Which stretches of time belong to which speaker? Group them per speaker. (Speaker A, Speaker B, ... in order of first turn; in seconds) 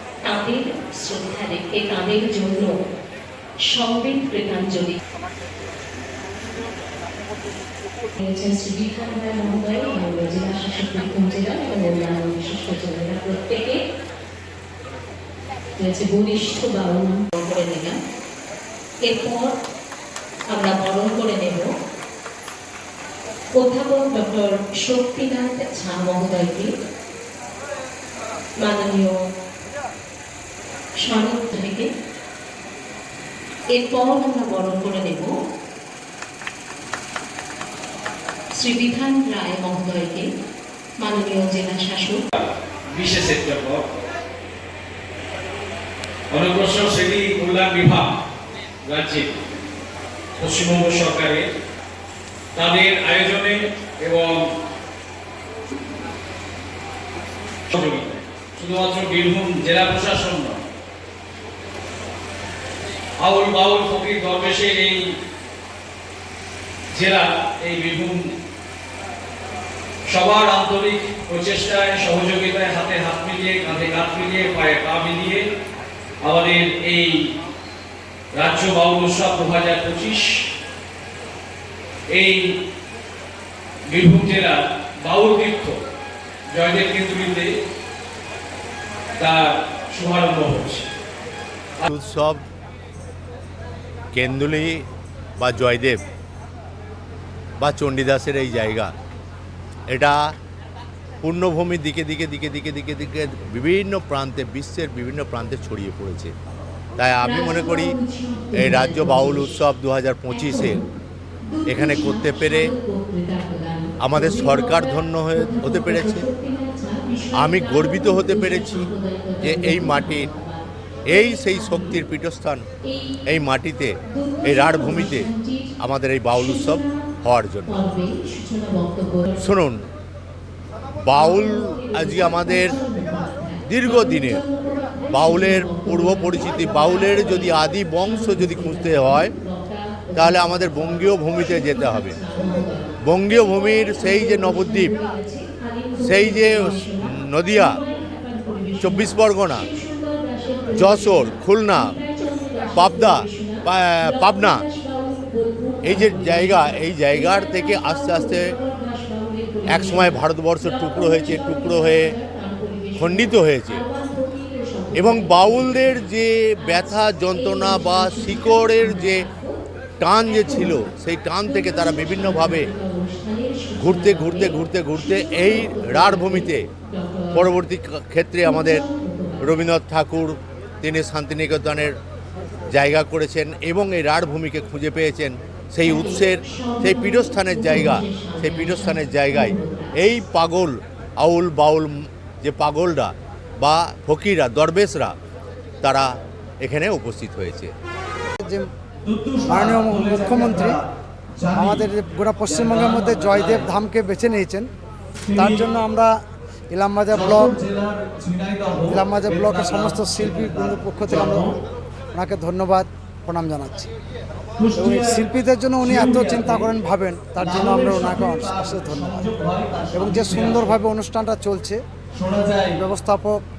Speaker A: 0.2-2.7, 3.7-5.0, 8.2-13.8, 15.8-18.0, 19.1-19.5, 20.5-21.7, 23.6-26.7, 28.6-29.1, 31.0-31.9, 33.7-35.3, 38.5-40.3, 41.0-42.2, 107.2-109.6, 110.3-110.9, 111.5-122.0, 122.9-123.2, 124.1-125.7, 126.3-127.1, 127.7-129.4, 131.2-142.9, 143.5-166.1, 166.6-169.6, 170.3-170.8, 171.4-177.5, 178.4-179.5, 185.8-190.2
Speaker B: 42.9-43.9, 46.3-48.1, 48.9-49.3, 50.4-51.5, 52.5-54.5, 57.7-60.6, 63.2-65.1, 66.9-68.3, 70.1-75.5, 76.2-77.3, 78.3-80.5, 82.1-82.5, 83.9-85.8, 86.5-87.5, 89.2-90.9, 199.0-200.8, 201.4-201.9, 202.4-203.7, 205.3-205.7, 207.1-211.5, 214.6-215.3, 215.8-216.7, 217.4-220.8, 222.1-222.8
Speaker C: 91.8-92.4, 94.1-94.8, 95.4-96.0, 97.6-98.9, 99.9-100.2, 101.2-106.3, 107.0-108.0, 108.5-110.8, 111.7-112.7, 114.0-116.3, 117.3-118.9, 119.4-120.3, 121.1-122.7, 123.3-125.3, 125.8-127.8, 129.4-129.8, 131.1-132.8, 133.7-134.4, 135.1-139.3, 140.2-142.2, 143.0-144.9, 146.0-147.8, 148.8-149.7, 150.8-151.9, 152.8-154.6, 155.8-158.4, 159.7-162.1, 163.0-163.8, 164.9-169.2, 170.0-172.7, 173.8-176.6, 177.3-178.8, 179.4-181.9, 182.7-195.1, 195.8-196.1, 196.6-197.7
Speaker D: 198.4-198.7, 199.5-200.8, 201.5-204.7, 205.3-206.1, 206.7-207.6, 208.9-211.5, 212.2-213.9, 214.7-219.3, 219.9-221.8, 222.8-223.4